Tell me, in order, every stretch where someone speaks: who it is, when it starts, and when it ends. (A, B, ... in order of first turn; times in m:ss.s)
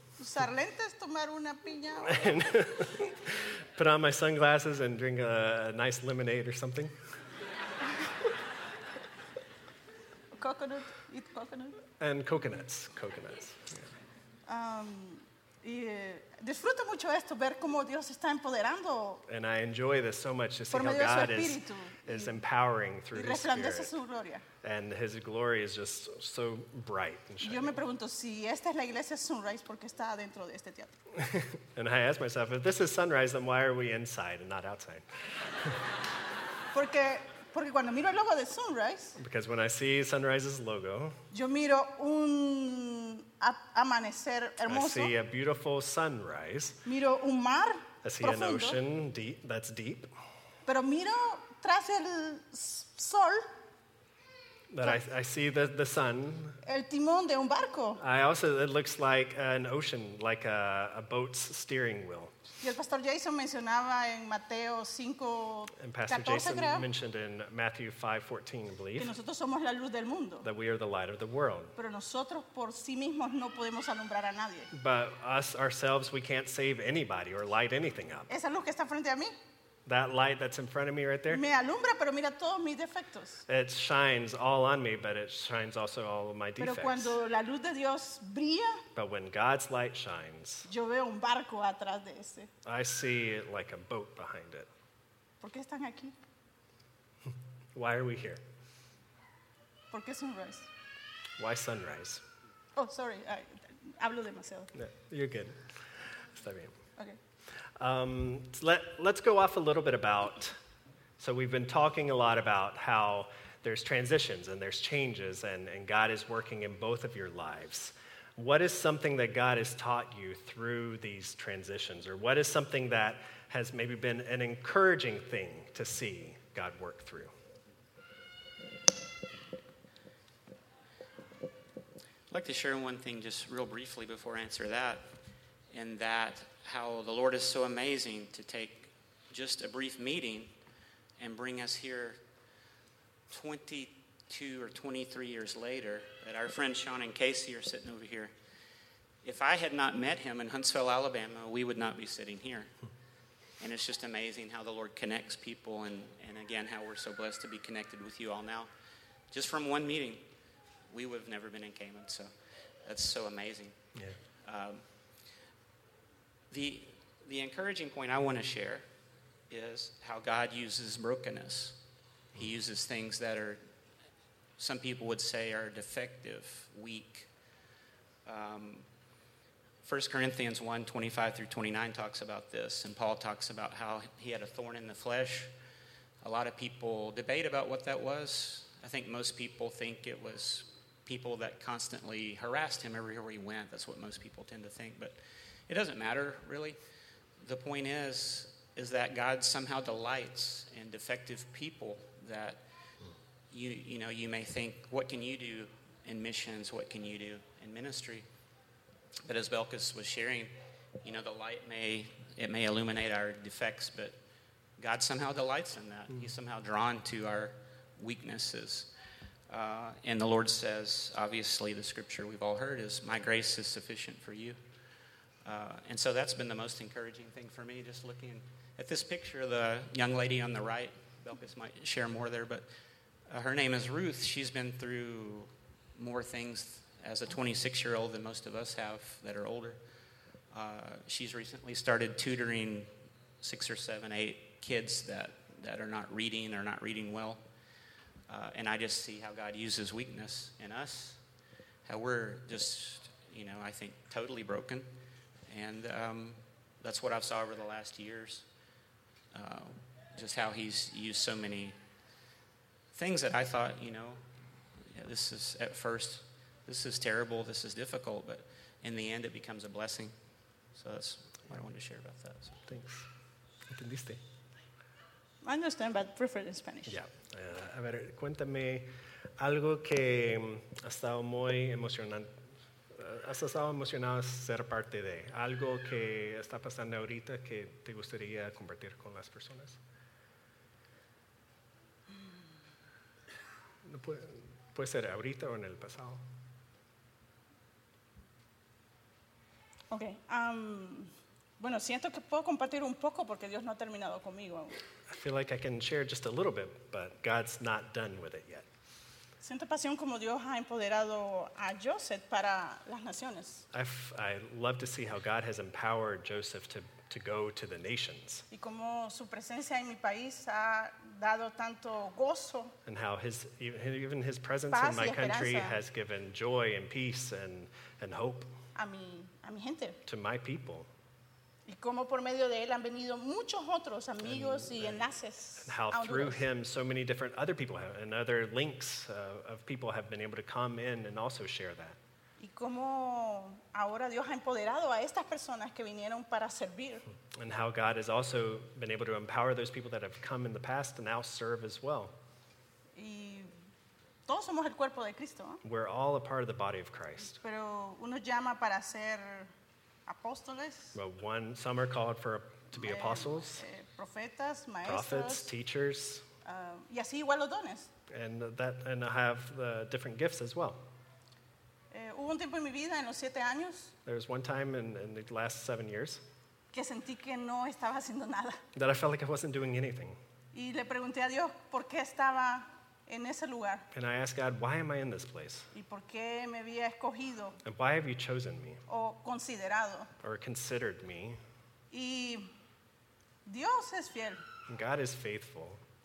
0:00.2-0:02.4 A
0:02.1-0:07.0 B
0:10.3-0:11.8 A
0:12.0-0:13.8 B
0:14.5-0:19.2 A
0:19.3-0:24.0 B
0:20.7-0:22.3 A
0:23.2-0:24.4 A
0:24.6-0:27.8 B
0:27.4-0:30.9 A
0:31.1-0:35.0 B
0:36.7-0:39.2 A
0:39.2-0:41.2 B
0:41.3-0:45.1 A
0:44.6-0:46.8 B
0:46.8-0:48.8 A
0:48.0-0:50.1 B
0:50.7-0:53.5 A
0:54.7-0:56.6 B
0:56.6-0:58.0 A
0:58.0-1:02.3 B
1:02.6-1:06.9 A
1:05.8-1:09.1 B
1:09.0-1:10.5 A
1:10.4-1:11.8 B
1:11.8-1:14.7 A
1:14.7-1:18.3 B
1:18.3-1:19.4 A
1:19.9-1:21.4 B
1:21.3-1:23.4 A
1:23.5-1:27.2 B
1:26.6-1:28.8 A
1:29.0-1:30.7 B
1:30.7-1:32.5 A
1:32.6-1:34.7 B
1:35.4-1:36.2 A
1:37.8-1:38.4 B
1:39.9-1:40.7 A
1:41.4-1:42.2 B
1:42.8-1:44.7 A
1:44.7-1:45.8 B
1:46.3-1:46.8 B
1:47.8-1:50.6 B
1:51.2-2:07.3 B
2:12.3-2:15.1 C
2:15.7-2:20.5 C
2:21.2-2:22.2 C
2:23.3-2:28.3 C
2:29.2-2:32.7 C
2:33.6-2:38.7 C
2:39.3-2:40.2 C
2:40.9-2:42.3 C
2:42.8-2:43.8 C
2:44.4-2:44.8 C
2:46.5-2:48.8 C
2:49.5-2:51.8 C
2:52.3-2:53.6 C
2:54.6-2:57.3 C
2:58.2-2:58.9 C
2:59.8-3:05.5 C
3:06.2-3:15.2 C
3:15.7-3:16.8 C
3:17.4-3:22.6 C
3:23.5-3:28.3 C
3:29.2-3:34.2 C
3:34.8-3:38.9 C
3:39.5-3:44.6 C
3:45.4-3:52.7 C
3:53.3-3:59.8 C
4:00.5-4:02.9 C
4:03.4-4:07.4 C
4:08.3-4:11.2 C
4:11.8-4:14.9 C
4:15.5-4:18.5 C
4:19.3-4:21.8 C
4:22.9-4:30.2 C
4:30.7-4:32.6 C
4:32.7-4:33.1 B
4:33.7-4:34.2 B
4:35.4-4:37.0 A
4:36.9-4:38.9 B
4:39.4-4:42.3 B
4:42.9-4:49.8 B
4:53.8-4:56.2 B
4:59.9-5:04.8 A
5:05.1-5:08.7 B
5:09.4-5:13.7 A
5:13.7-5:18.5 B
5:18.5-5:22.8 A
5:22.8-5:28.5 B
5:24.7-5:25.8 A
5:28.8-5:30.0 A
5:30.0-5:30.9 B
5:31.7-5:36.4 A
5:34.2-5:35.1 B
5:35.6-5:42.0 B
5:42.4-5:47.0 A
5:47.3-5:52.1 B
5:53.0-5:53.5 A
5:54.3-5:55.6 A
5:55.6-5:57.4 B
5:57.3-5:59.5 A
6:00.1-6:01.0 A
6:00.9-6:03.6 B
6:02.8-6:05.5 A
6:04.8-6:06.3 B
6:06.4-6:07.9 A
6:08.1-6:10.8 B
6:11.9-6:14.0 A
6:14.0-6:16.2 B
6:16.7-6:18.6 A
6:18.8-6:20.2 B
6:20.5-6:23.9 A
6:23.9-6:25.7 B
6:25.7-6:27.6 A
6:27.6-6:28.8 B
6:28.9-6:30.1 A
6:30.2-6:31.4 B
6:31.9-6:32.5 A
6:33.4-6:34.4 A
6:34.7-6:35.8 B